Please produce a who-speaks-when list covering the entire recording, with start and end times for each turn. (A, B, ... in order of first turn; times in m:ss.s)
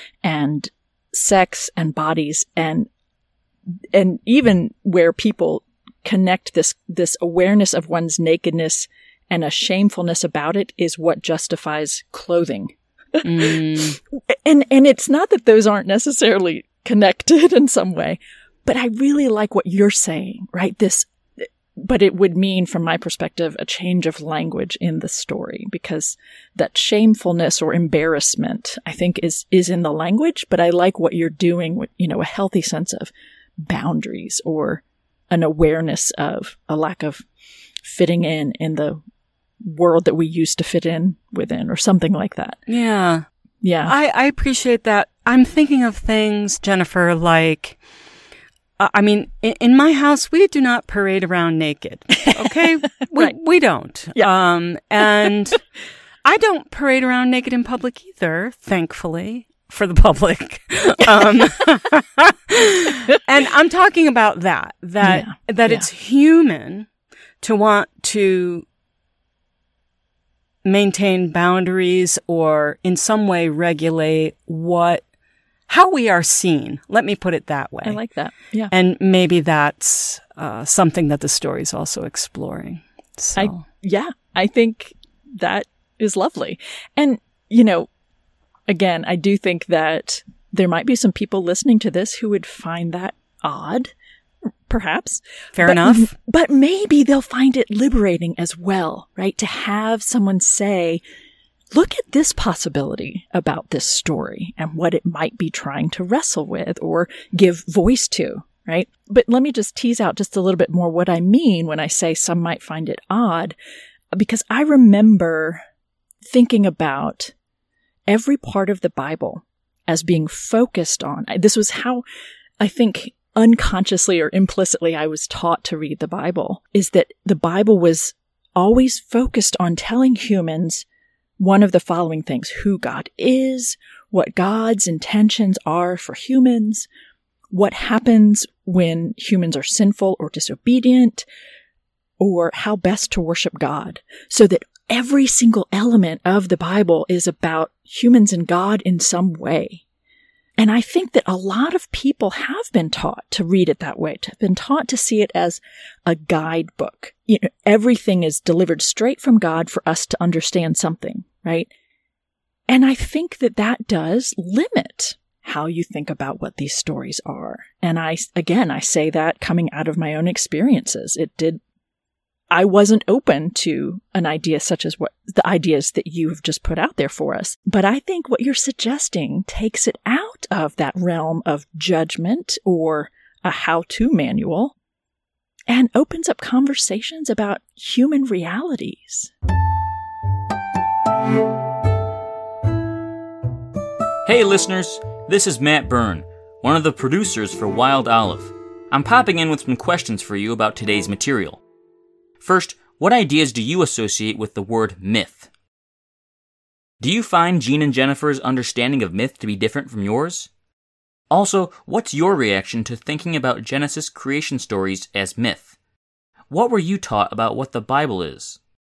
0:00.2-0:02.9 A
0:03.9-0:37.2 A
0:13.2-0:14.0 B
0:37.8-0:39.0 A
0:39.6-0:42.6 A
0:42.7-0:43.2 B
0:43.6-0:43.9 A
0:43.8-0:47.8 B
0:48.8-0:55.6 B
0:56.2-1:06.9 B
1:05.0-1:05.9 A
1:07.4-1:08.6 B
1:10.6-1:15.0 B
1:15.7-1:18.0 B
1:17.8-1:18.7 A
1:18.7-1:23.6 B
1:23.4-1:27.9 A
1:28.7-1:33.9 A
1:34.7-1:41.0 A
1:35.5-1:36.1 B
1:41.7-1:53.5 A
1:54.1-1:55.6 A
1:56.2-1:57.3 A
1:58.1-2:02.0 A
2:02.6-2:10.8 A
2:11.4-2:16.9 A
2:17.5-2:21.2 A
2:22.2-2:29.8 A
2:30.6-2:41.7 A
2:42.7-2:51.6 A
2:52.5-3:04.7 A
3:05.7-3:09.3 A
3:14.2-3:21.6 C
3:22.4-3:25.5 C
3:27.0-3:30.5 C
3:31.3-3:35.7 C
3:36.5-3:38.6 C